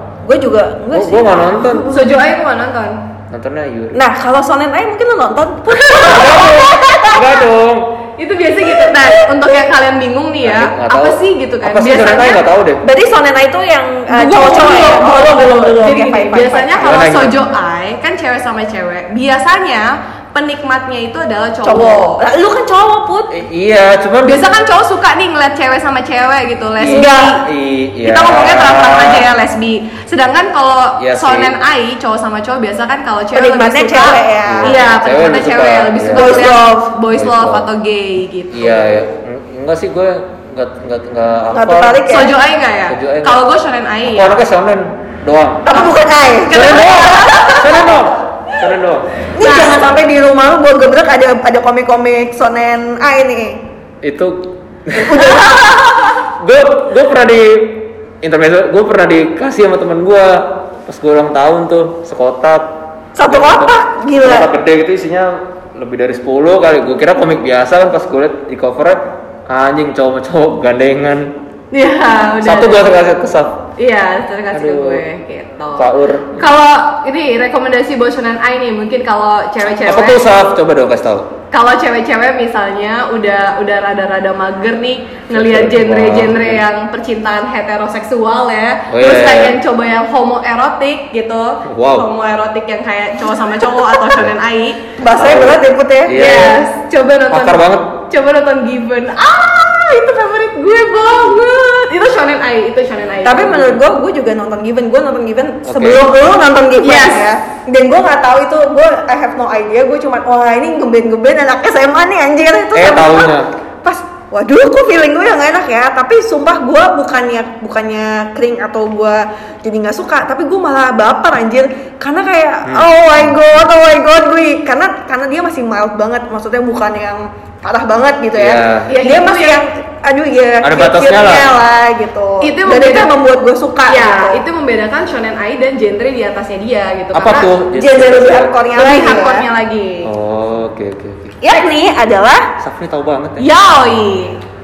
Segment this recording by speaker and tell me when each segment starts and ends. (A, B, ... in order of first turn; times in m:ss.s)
0:00.2-0:02.0 A
0:00.9-0:01.9 B
0:01.8-0:03.0 C
0:03.3-0:04.0 B
0:03.9-0:07.4 A
0:05.7-0:07.9 B
0:08.2-0:12.4 C
0:08.6-0:09.3 A
0:10.4-0:12.8 B
0:12.8-0:16.8 A
0:14.1-0:22.2 C
0:16.8-0:17.4 B
0:21.6-0:23.3 A
0:23.3-0:24.5 B
0:24.2-0:27.4 C
0:26.8-0:29.2 B
0:26.8-0:27.4 A
0:28.0-0:38.9 C
0:31.0-0:31.5 B
0:33.3-0:34.8 A
0:34.4-0:36.5 B
0:36.1-0:36.9 A
0:37.1-0:37.6 B
0:38.5-0:42.0 B
0:41.5-0:42.3 A
0:42.0-0:44.3 C
0:42.9-0:43.4 B
0:44.1-0:45.7 B
0:45.6-0:48.0 A
0:46.5-0:49.1 B
0:46.6-0:47.6 C
0:49.3-0:53.6 A
0:49.4-0:49.8 C
0:54.0-0:55.8 B
0:55.0-0:56.2 A
0:56.4-1:11.4 B
1:03.2-1:04.5 A
1:11.7-1:13.0 C
1:12.4-1:13.6 B
1:13.8-1:20.3 C
1:14.5-1:15.0 B
1:15.8-1:16.4 B
1:19.8-1:21.3 B
1:21.5-1:34.8 C
1:25.3-1:26.6 B
1:28.9-1:29.6 B
1:31.7-1:32.1 B
1:35.0-1:36.2 A
1:35.1-1:36.6 B
1:36.1-1:43.8 C
1:37.3-1:38.0 B
1:43.2-2:14.4 A
1:45.6-1:46.1 B
1:46.8-1:47.3 C
1:52.7-1:53.5 B
2:02.6-2:03.5 B
2:08.4-2:08.9 B
2:08.9-2:09.6 C
2:10.6-2:11.5 B
2:12.4-2:13.1 C
2:13.9-2:17.5 C
2:17.1-2:18.5 B
2:17.7-2:19.4 A
2:18.7-2:20.1 C
2:20.0-2:21.4 B
2:21.4-2:22.5 A
2:22.6-2:23.5 B
2:23.4-2:24.4 C